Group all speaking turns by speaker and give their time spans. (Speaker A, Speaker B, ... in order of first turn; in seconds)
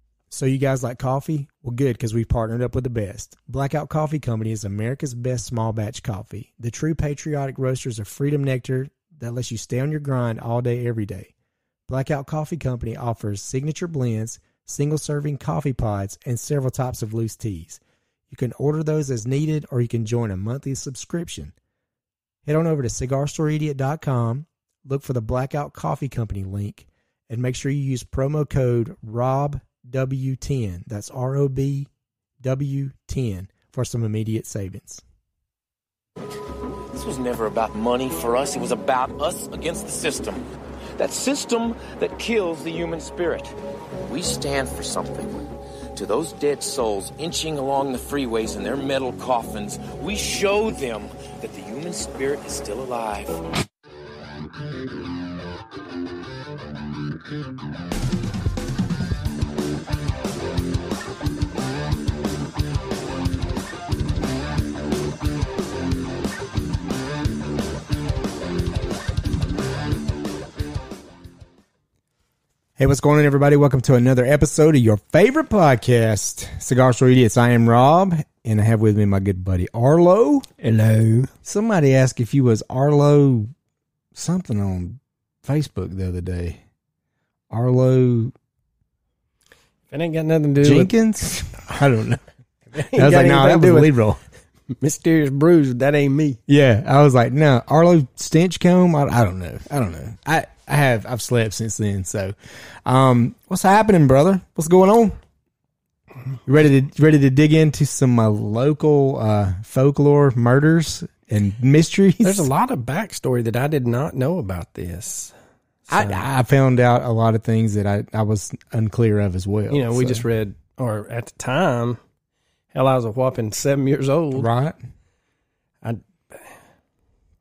Speaker A: 0.3-11.3, 11.9-21.5, 22.4-31.9, 32.4-35.0, 72.8-80.5, 81.4-83.5, 84.1-86.6, 87.5-88.3, 90.6-92.2, 92.8-94.2, 96.5-102.3, 102.8-105.2, 106.5-112.5, 115.9-120.2, 124.3-124.8
Speaker B: 36.9-40.4, 41.0-43.5, 44.0-53.4
Speaker C: 80.6-81.3, 89.9-90.9, 92.7-93.9, 94.7-96.4, 112.2-115.3, 115.9-116.2, 119.7-122.0, 122.7-124.5, 125.8-126.6